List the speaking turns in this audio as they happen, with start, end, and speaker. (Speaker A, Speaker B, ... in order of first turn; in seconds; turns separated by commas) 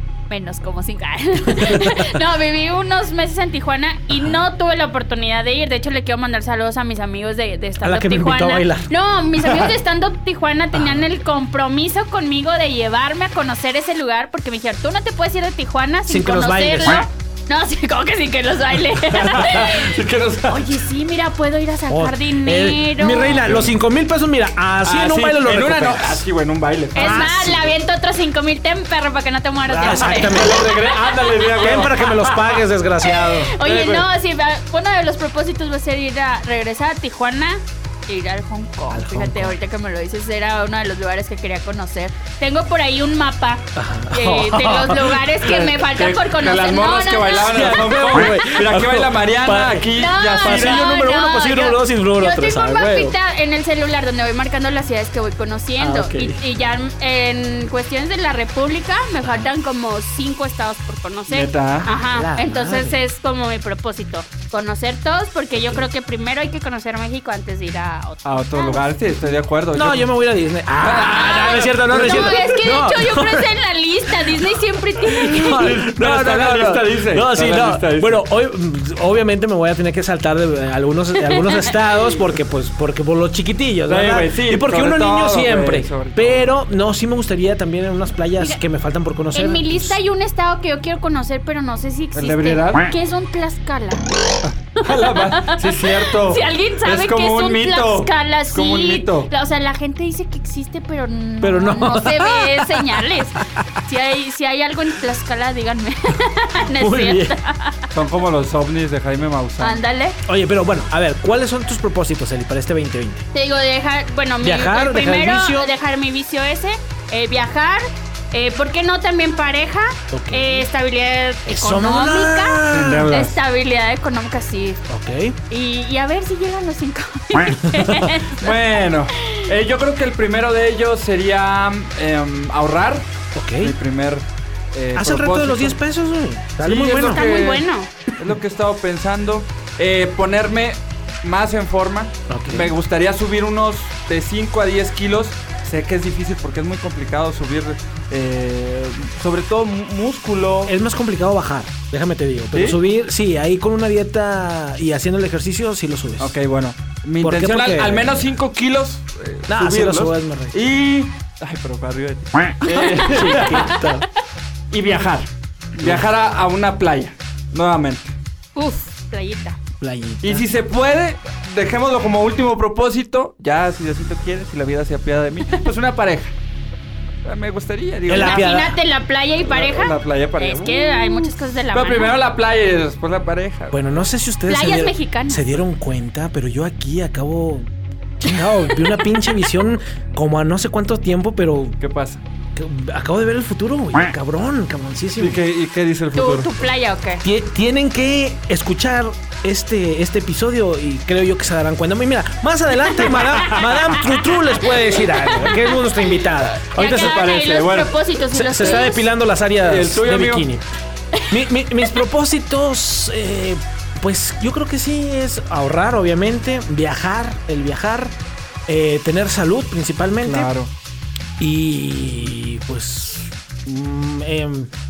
Speaker A: 0.3-19.9, Speaker B: 1.5-2.1, Speaker B: 7.8-8.9, Speaker B: 10.7-11.0, Speaker B: 16.1-17.0, Speaker C: 18.9-20.8, Speaker A: 20.5-23.4, Speaker B: 21.9-26.2, Speaker C: 23.4-23.7, Speaker C: 24.8-27.3, Speaker B: 26.9-27.7, Speaker A: 26.9-31.9, Speaker B: 29.6-30.8, Speaker C: 29.8-32.5, Speaker B: 31.6-33.5, Speaker A: 33.0-48.3, Speaker C: 33.6-34.1, Speaker B: 38.9-39.5, Speaker B: 43.7-45.2, Speaker C: 45.4-50.9, Speaker B: 47.4-53.1, Speaker A: 49.9-68.9, Speaker B: 55.8-56.4, Speaker B: 59.2-59.5, Speaker C: 61.3-61.9, Speaker B: 62.1-63.0, Speaker C: 68.2-70.1, Speaker B: 69.7-73.5, Speaker C: 70.8-72.6, Speaker A: 70.9-75.6, Speaker B: 75.0-90.0, Speaker C: 75.3-78.2, Speaker A: 81.2-81.7, Speaker C: 83.9-86.5, Speaker A: 89.3-107.8, Speaker C: 92.1-92.9, Speaker C: 94.7-99.3, Speaker B: 101.4-103.4, Speaker B: 106.8-107.3, Speaker C: 107.9-109.8, Speaker A: 109.6-110.2, Speaker B: 110.2-113.2, Speaker A: 113.3-124.8, Speaker B: 114.4-115.7, Speaker B: 120.1-120.7, Speaker B: 121.5-123.2, Speaker C: 122.7-123.4, Speaker B: 124.9-125.4, Speaker A: 125.5-128.6, Speaker B: 127.7-128.0, Speaker C: 127.7-133.1, Speaker A: 129.2-129.4, Speaker B: 133.3-133.8, Speaker C: 133.6-134.2, Speaker C: 134.7-135.8, Speaker B: 134.9-137.3, Speaker C: 136.6-137.6, Speaker A: 137.1-137.9, Speaker C: 138.2-150.7, Speaker B: 142.3-142.7, Speaker B: 150.7-156.4, Speaker C: 152.5-152.8, Speaker C: 156.2-163.7, Speaker B: 157.2-158.2, Speaker B: 159.5-160.6, Speaker A: 162.7-163.8, Speaker B: 163.1-164.0, Speaker C: 164.7-168.1, Speaker B: 165.8-166.0, Speaker A: 168.6-169.6, Speaker B: 169.8-170.4, Speaker C: 170.2-176.3, Speaker C: 177.2-178.6, Speaker B: 178.1-178.8, Speaker A: 178.1-182.2, Speaker C: 179.4-183.8, Speaker B: 183.7-187.7, Speaker A: 184.5-185.4, Speaker B: 188.2-191.8, Speaker A: 188.3-189.1, Speaker C: 191.8-192.2, Speaker B: 192.5-195.4, Speaker C: 195.2-196.5, Speaker A: 196.1-197.2, Speaker B: 197.2-207.2, Speaker A: 203.4-204.0, Speaker A: 204.9-205.7, Speaker A: 206.7-209.1, Speaker C: 206.8-208.0, Speaker B: 208.3-210.6, Speaker C: 209.6-210.5, Speaker B: 211.3-218.1, Speaker B: 218.7-220.5, Speaker C: 220.2-220.7, Speaker B: 221.4-224.7